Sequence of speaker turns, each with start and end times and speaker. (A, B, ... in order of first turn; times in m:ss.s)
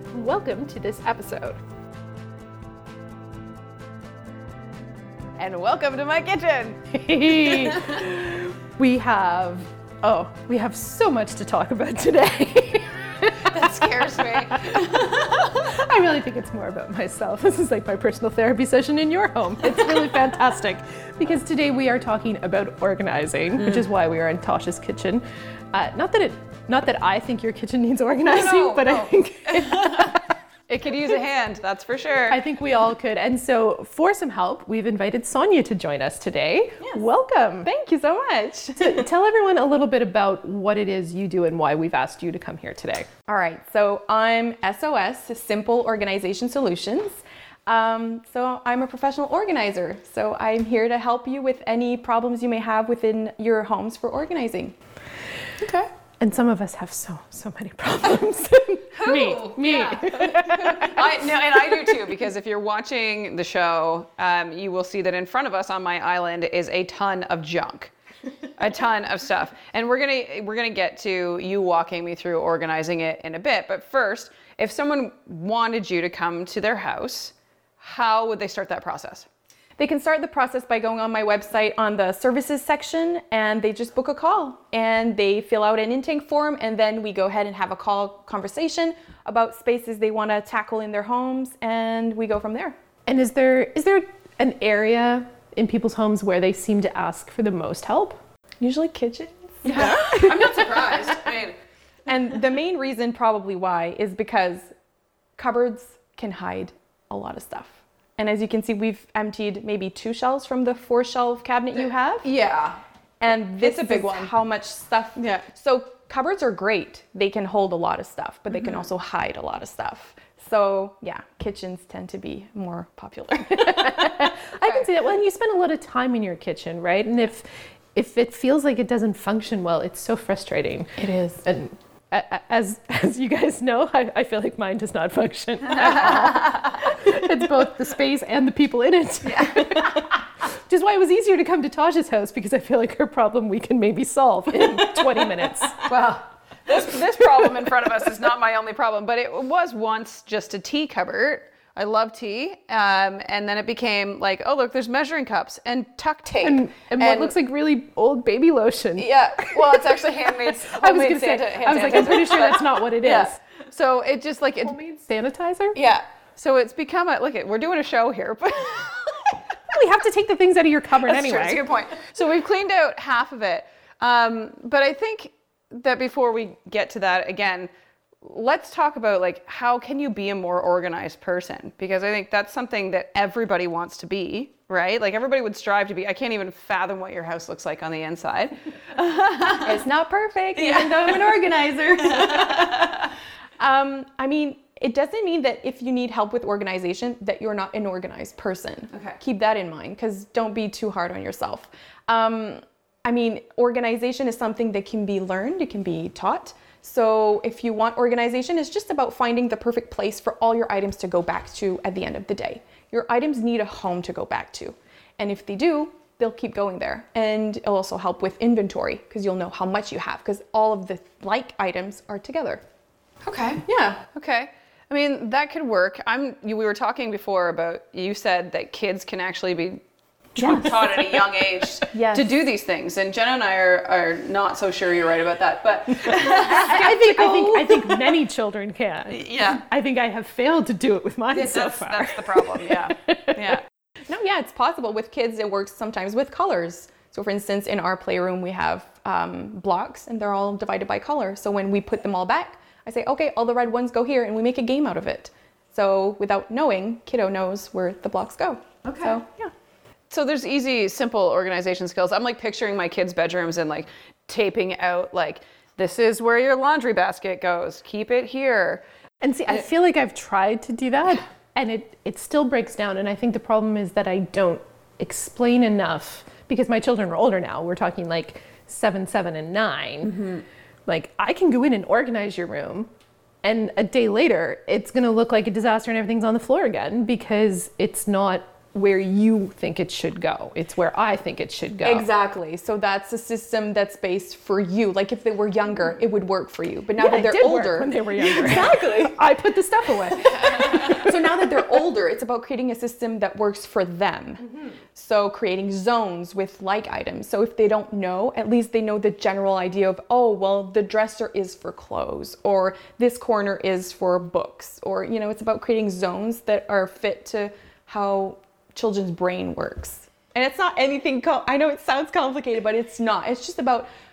0:00.1-0:01.6 A
0:05.4-0:06.9 B
0:06.9-0:30.2 A
0:07.5-0:07.9 B
0:13.5-0:15.6 B
0:28.2-0:32.4 B
0:32.3-0:37.7 A
0:37.6-0:39.0 C
0:38.8-0:43.1 A
0:43.3-0:54.8 C
0:55.6-0:55.9 B
0:56.2-1:01.1 A
0:58.9-1:07.9 B
1:08.6-1:19.3 B
1:19.8-1:32.8 C
1:33.1-1:38.2 A
1:38.6-1:40.9 C
1:39.6-1:41.6 B
1:39.8-1:40.7 A
1:42.1-1:44.7 C
1:45.4-1:52.3 C
1:52.2-1:52.8 B
1:53.2-2:04.2 C
1:53.6-1:54.3 B
1:55.2-1:55.4 B
2:03.5-2:25.9 A
2:11.0-2:11.4 C
2:19.3-2:20.0 B
2:25.8-2:37.4 B
2:36.4-2:43.4 A
2:39.0-2:44.8 B
2:44.7-2:45.8 A
2:45.8-2:49.4 B
2:49.7-2:51.6 A
2:51.0-2:57.7 B
2:58.2-3:09.8 B
3:09.6-3:13.1 C
3:10.6-3:11.3 B
3:12.2-3:13.0 B
3:13.6-3:42.6 C
3:43.2-3:49.8 B
3:43.7-3:44.0 C
3:50.4-3:51.7 A
3:50.4-3:57.8 B
3:51.9-3:52.4 C
3:56.3-4:03.6 A
3:56.5-3:56.8 C
3:59.1-3:59.6 B
4:01.3-4:03.6 B
4:04.1-4:19.5 C
4:18.9-4:19.2 B
4:20.1-4:28.8 B
4:29.2-4:42.9 A
4:43.4-4:52.1 A
4:51.8-4:59.2 C
4:57.0-5:01.4 A
5:00.3-5:23.9 C